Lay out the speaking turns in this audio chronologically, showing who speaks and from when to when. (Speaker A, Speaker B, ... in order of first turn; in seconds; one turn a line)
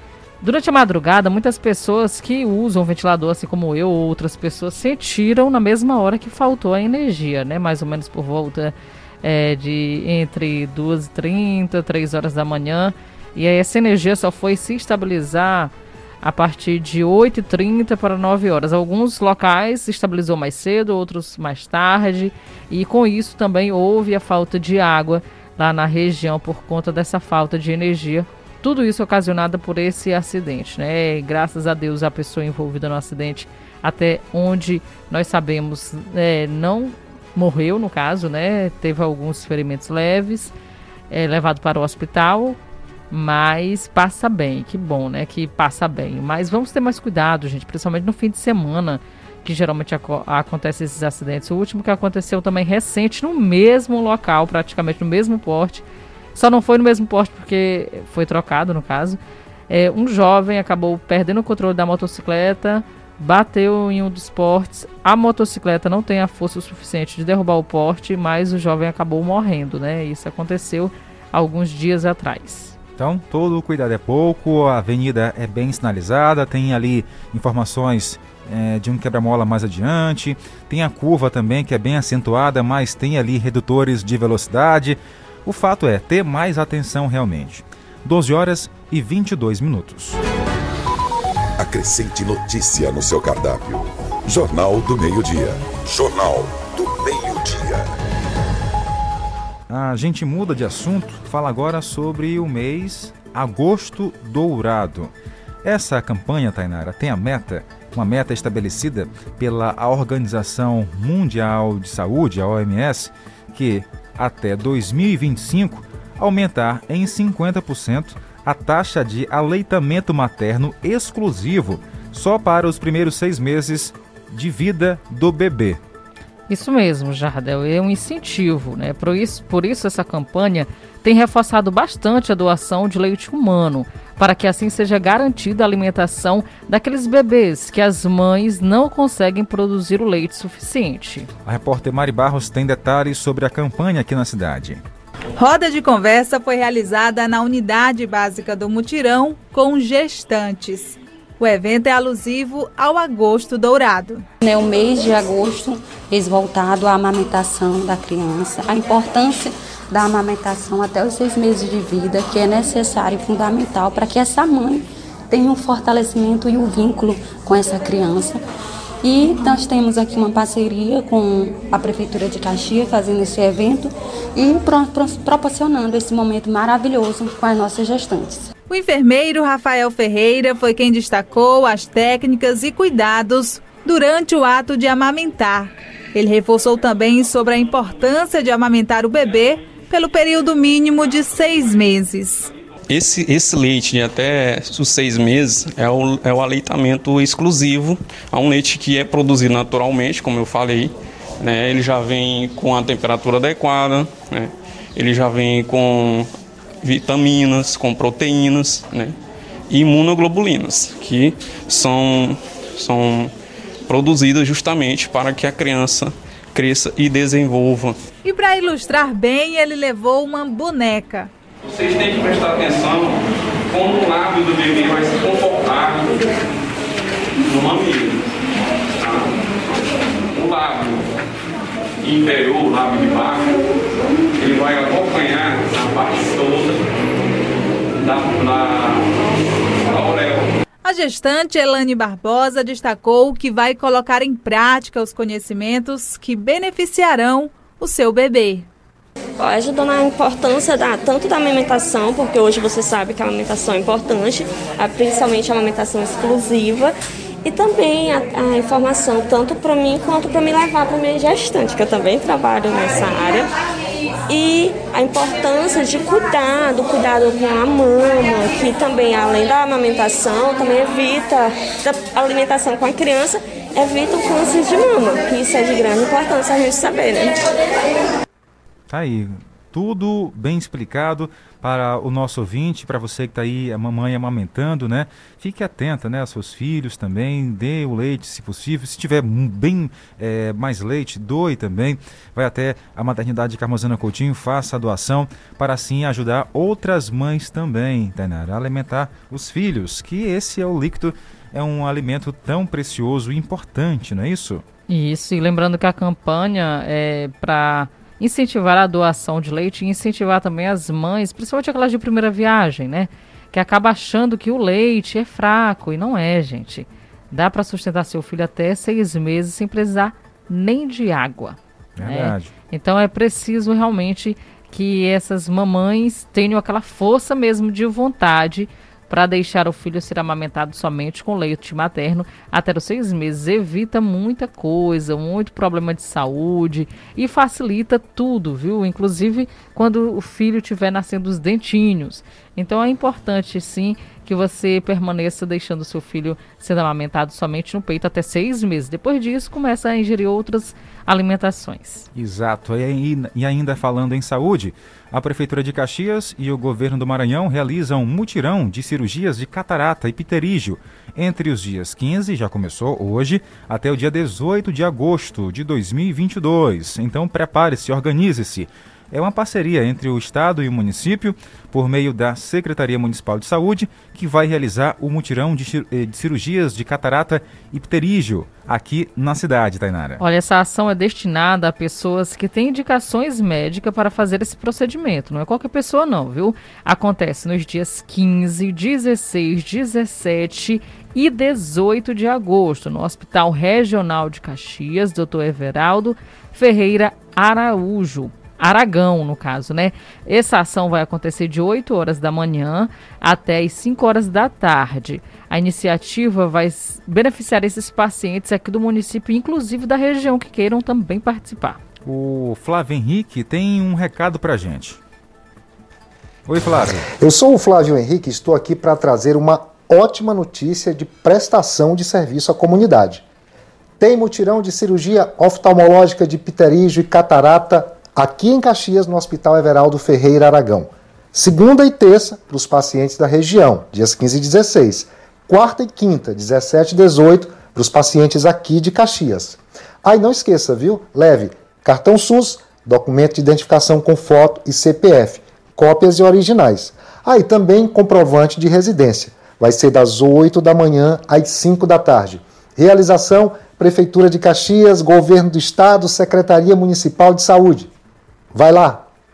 Speaker A: 0.4-40.5
Speaker A: 41.1-42.6
Speaker A: 43.1-55.8
Speaker A: 56.3-72.7
Speaker B: 73.0-90.2
Speaker C: 91.6-98.0
Speaker B: 99.7-105.1
Speaker B: 105.6-125.8
Speaker A: 126.5-141.3
Speaker B: 141.4-144.8
Speaker D: 145.4-154.2
Speaker E: 154.4-168.4
Speaker E: 169.0-178.5
Speaker D: 178.7-192.5
Speaker F: 192.9-206.3
Speaker F: 206.8-209.1
Speaker F: 209.7-213.3
Speaker F: 213.9-218.0
Speaker D: 218.2-221.3
Speaker F: 221.7-226.4
Speaker F: 227.4-228.2
Speaker F: 229.0-229.4
Speaker F: 230.3-231.1
Speaker F: 232.0-233.6
Speaker F: 234.4-236.9
Speaker F: 238.0-239.3
Speaker F: 239.8-240.5
Speaker D: 240.8-248.7
Speaker G: 249.4-256.9
Speaker G: 257.4-263.5
Speaker G: 264.3-277.4
Speaker B: 278.9-304.6
Speaker A: 304.9-352.1
Speaker B: 322.0-322.5
Speaker B: 352.1-380.2
Speaker A: 380.2-411.8
Speaker B: 412.0-415.0
Speaker B: 416.5-417.1
Speaker H: 417.2-423.2
Speaker H: 424.0-457.9
Speaker H: 458.5-459.0